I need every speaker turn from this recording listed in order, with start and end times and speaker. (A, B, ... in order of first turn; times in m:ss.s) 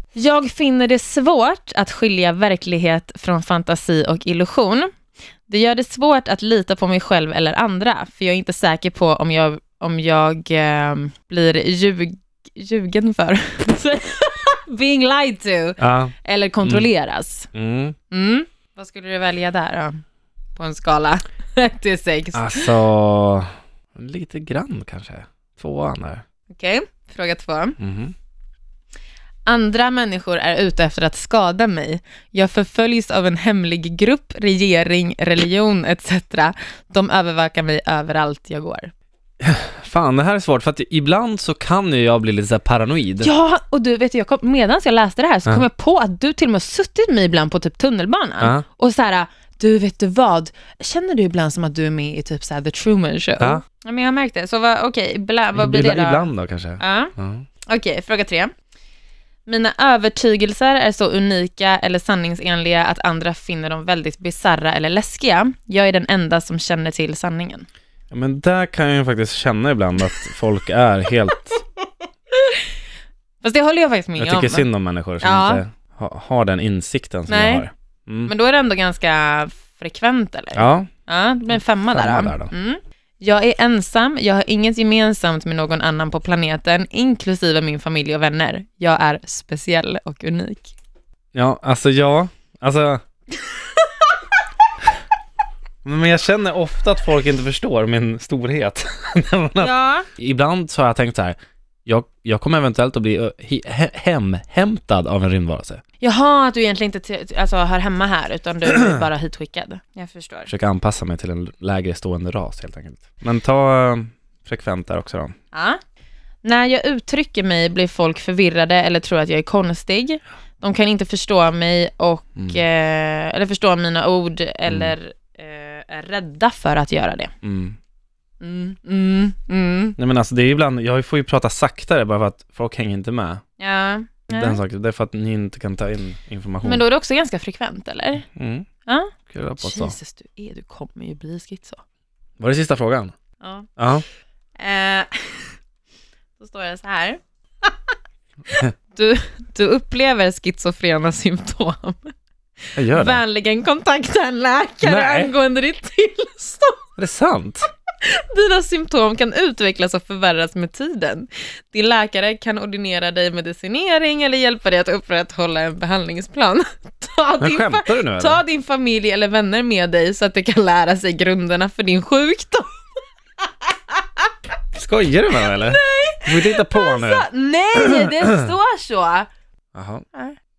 0:00.2-0:04.9 A
0:05.5-0:17.5 A
0:15.8-0:16.9 B
0:17.5-0:18.0 B
0:18.1-0:20.0 A
0:20.6-0:22.7 A
0:22.3-0:26.2 B
0:26.5-0:27.8 A
0:27.8-0:28.1 B
0:29.5-0:38.9 A
0:39.4-0:43.3 B
0:43.2-0:57.1 A
0:48.4-0:48.6 B
0:55.5-0:57.4 B
0:57.6-0:58.5 A
0:59.4-1:07.7 A
1:08.1-1:11.6 B
1:12.3-1:12.7 A
1:13.4-1:14.7 A
1:14.2-1:18.3 B
1:15.2-1:15.6 A
1:17.3-1:17.7 A
1:18.3-1:30.7 A
1:20.6-1:20.9 B
1:21.9-1:22.5 B
1:31.3-1:33.0 B
1:35.8-1:45.8 B
1:39.6-1:40.1 A
1:46.0-1:50.5 A
1:48.8-1:49.0 B
1:50.5-1:55.3 B
1:55.5-1:55.8 A
1:56.4-2:07.3 A
2:04.7-2:04.9 B
2:07.4-2:07.8 B
2:08.4-2:10.0 A
2:10.0-2:13.4 B
2:13.6-2:14.6 A
2:14.3-2:16.8 B
2:16.6-2:18.2 A
2:18.4-2:18.7 B
2:18.9-2:21.8 A
2:19.3-2:19.9 B
2:22.4-2:23.1 B
2:23.4-2:23.7 A
2:23.8-2:24.0 B
2:24.6-2:25.5 A
2:26.4-2:27.7 A
2:28.5-2:32.1 A
2:32.8-2:33.2 B
2:32.8-2:36.8 A
2:34.8-2:35.3 B
2:37.0-2:37.7 B
2:38.0-2:52.7 A
2:47.4-2:48.4 B
2:54.7-2:58.5 B
2:55.3-2:59.3 A
2:59.7-3:00.0 B